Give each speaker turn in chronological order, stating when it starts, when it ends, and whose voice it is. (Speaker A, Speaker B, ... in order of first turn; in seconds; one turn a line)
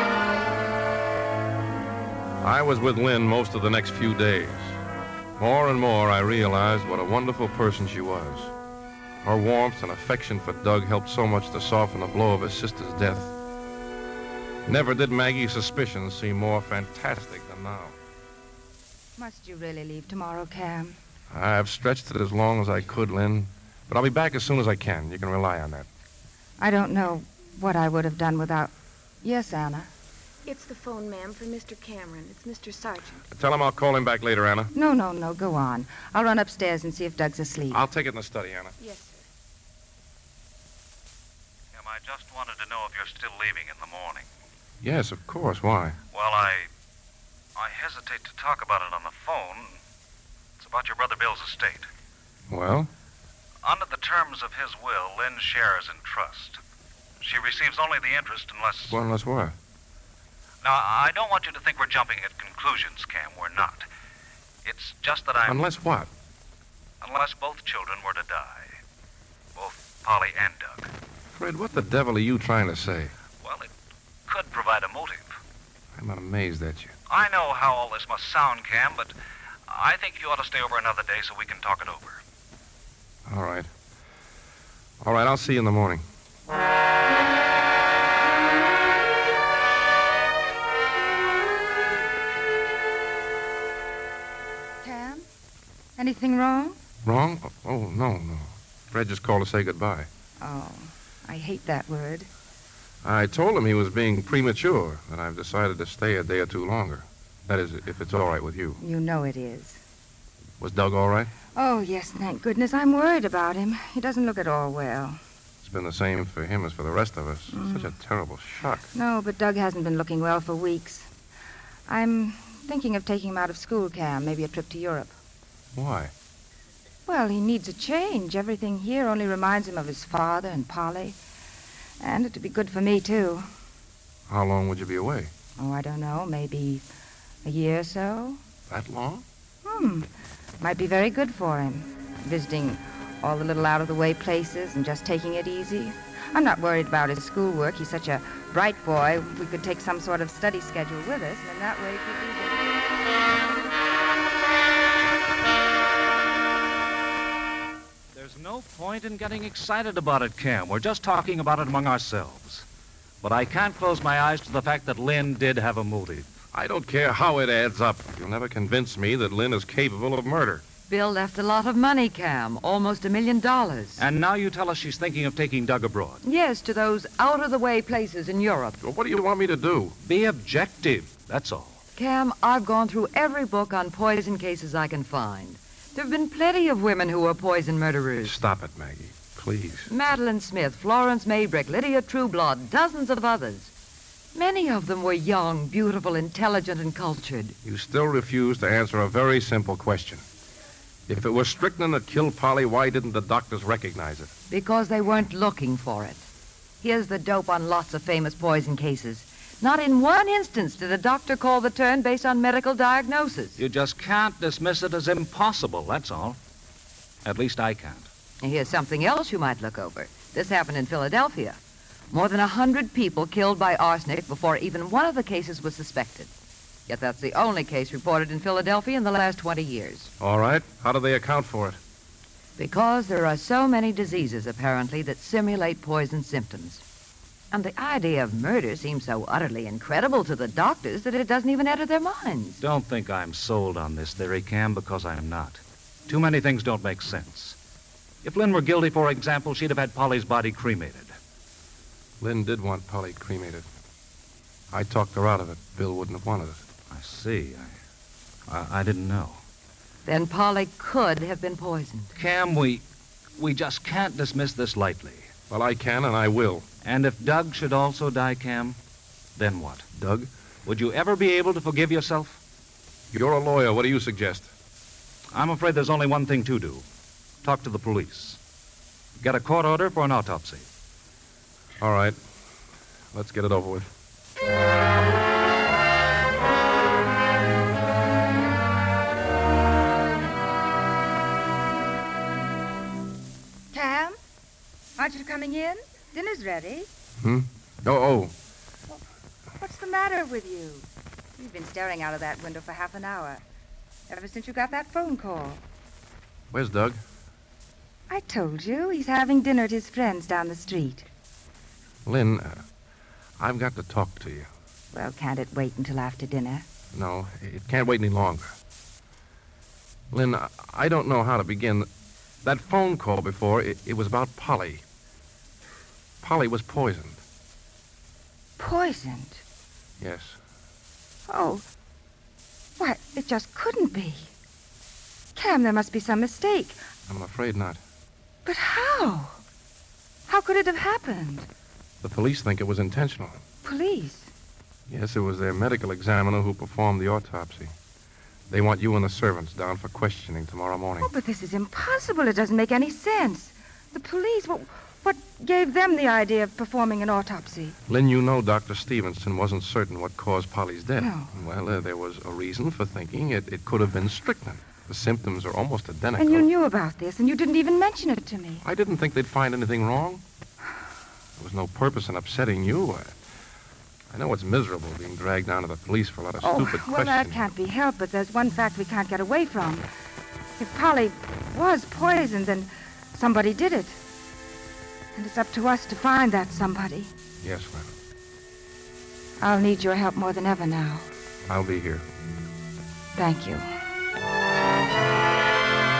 Speaker A: 2.4-4.8
Speaker A: 5.4-8.5
Speaker A: 9.2-13.3
Speaker A: 14.7-17.9
Speaker B: 19.2-21.0
Speaker A: 21.3-25.9
Speaker B: 26.6-28.7
Speaker B: 29.2-29.9
Speaker C: 30.4-33.2
Speaker A: 33.3-34.7
Speaker B: 34.7-37.8
Speaker A: 37.7-38.7
Speaker C: 38.8-39.2
Speaker D: 41.7-44.3
Speaker A: 44.8-46.0
Speaker D: 46.1-46.7
Speaker D: 47.5-49.8
Speaker D: 50.6-51.9
Speaker A: 52.5-52.9
Speaker D: 53.6-56.6
Speaker D: 57.2-59.0
Speaker A: 58.9-59.5
Speaker D: 60.6-63.9
Speaker D: 64.6-65.6
Speaker A: 65.5-66.1
Speaker D: 67.0-68.7
Speaker D: 69.5-70.9
Speaker A: 71.3-73.1
Speaker D: 73.4-73.7
Speaker D: 74.3-75.3
Speaker A: 75.9-76.9
Speaker D: 77.1-79.1
Speaker D: 79.7-82.2
Speaker A: 83.2-83.7
Speaker A: 85.0-86.0
Speaker B: 94.8-95.2
Speaker B: 96.0-96.8
Speaker A: 97.0-100.1
Speaker B: 100.4-102.3
Speaker A: 103.0-108.8
Speaker B: 108.8-109.8
Speaker A: 110.6-111.3
Speaker B: 111.5-115.2
Speaker A: 115.6-118.9
Speaker B: 117.5-117.9
Speaker B: 118.9-121.1
Speaker B: 121.9-125.1
Speaker A: 125.7-126.1
Speaker B: 127.0-131.2
Speaker B: 132.0-133.5
Speaker A: 134.3-135.3
Speaker B: 135.6-136.8
Speaker B: 137.4-138.4
Speaker A: 138.7-139.2
Speaker B: 139.6-140.1
Speaker B: 140.6-152.8
Speaker D: 158.1-162.7
Speaker D: 163.2-166.3
Speaker A: 166.5-170.6
Speaker E: 170.9-174.0
Speaker D: 174.0-176.2
Speaker E: 176.2-178.8
Speaker A: 178.8-179.9
Speaker D: 180.0-181.8
Speaker E: 181.9-188.4
Speaker A: 188.2-189.9
Speaker E: 189.9-193.7
Speaker E: 194.3-197.6
Speaker A: 197.6-200.2
Speaker A: 201.1-204.3
Speaker E: 204.5-206.2
Speaker E: 206.8-213.6
Speaker D: 213.6-216.4
Speaker D: 217.2-218.1
Speaker E: 218.4-221.6
Speaker E: 222.1-226.3
Speaker E: 226.9-230.1
Speaker A: 230.2-231.8
Speaker E: 232.6-236.8
Speaker E: 237.5-242.6
Speaker D: 242.6-247.6
Speaker D: 248.2-251.1
Speaker A: 252.2-253.6
Speaker A: 254.7-256.6
Speaker D: 256.9-257.7
Speaker D: 258.5-259.4
Speaker E: 260.0-262.1
Speaker D: 262.1-262.8
Speaker D: 263.4-265.3
Speaker A: 265.5-266.6
Speaker D: 266.8-268.8
Speaker D: 269.4-269.9
Speaker A: 269.9-270.3
Speaker D: 270.6-272.4
Speaker A: 273.1-274.5
Speaker D: 275.3-276.8
Speaker D: 277.4-278.4
Speaker D: 279.2-280.6
Speaker A: 281.8-282.2
Speaker A: 283.1-283.9
Speaker B: 293.7-294.2
Speaker B: 295.0-296.9
Speaker A: 297.2-298.3
Speaker B: 299.6-300.9
Speaker B: 301.4-303.4
Speaker B: 304.1-305.6
Speaker A: 306.5-307.0
Speaker B: 308.1-311.1
Speaker A: 312.1-312.6
Speaker A: 313.4-314.5
Speaker B: 314.9-316.6
Speaker A: 316.9-318.5
Speaker A: 320.1-321.9
Speaker A: 322.4-324.8
Speaker A: 326.2-327.2
Speaker B: 328.6-329.4
Speaker A: 330.0-330.4
Speaker B: 331.3-331.6
Speaker B: 332.8-334.3
Speaker B: 335.3-336.8
Speaker A: 337.1-337.8
Speaker B: 338.4-339.4
Speaker B: 340.3-341.5
Speaker A: 342.0-343.4
Speaker B: 343.6-344.3
Speaker A: 344.9-347.7
Speaker A: 348.5-351.1
Speaker B: 351.0-357.8
Speaker A: 357.9-366.5
Speaker B: 361.0-361.3
Speaker B: 366.2-368.6
Speaker A: 368.6-370.2
Speaker A: 371.4-373.1
Speaker A: 374.1-377.4
Speaker B: 376.4-379.9
Speaker B: 380.6-384.0
Speaker B: 385.1-387.1
Speaker A: 387.4-387.9
Speaker B: 389.4-391.1
Speaker A: 391.5-392.0
Speaker B: 393.1-393.7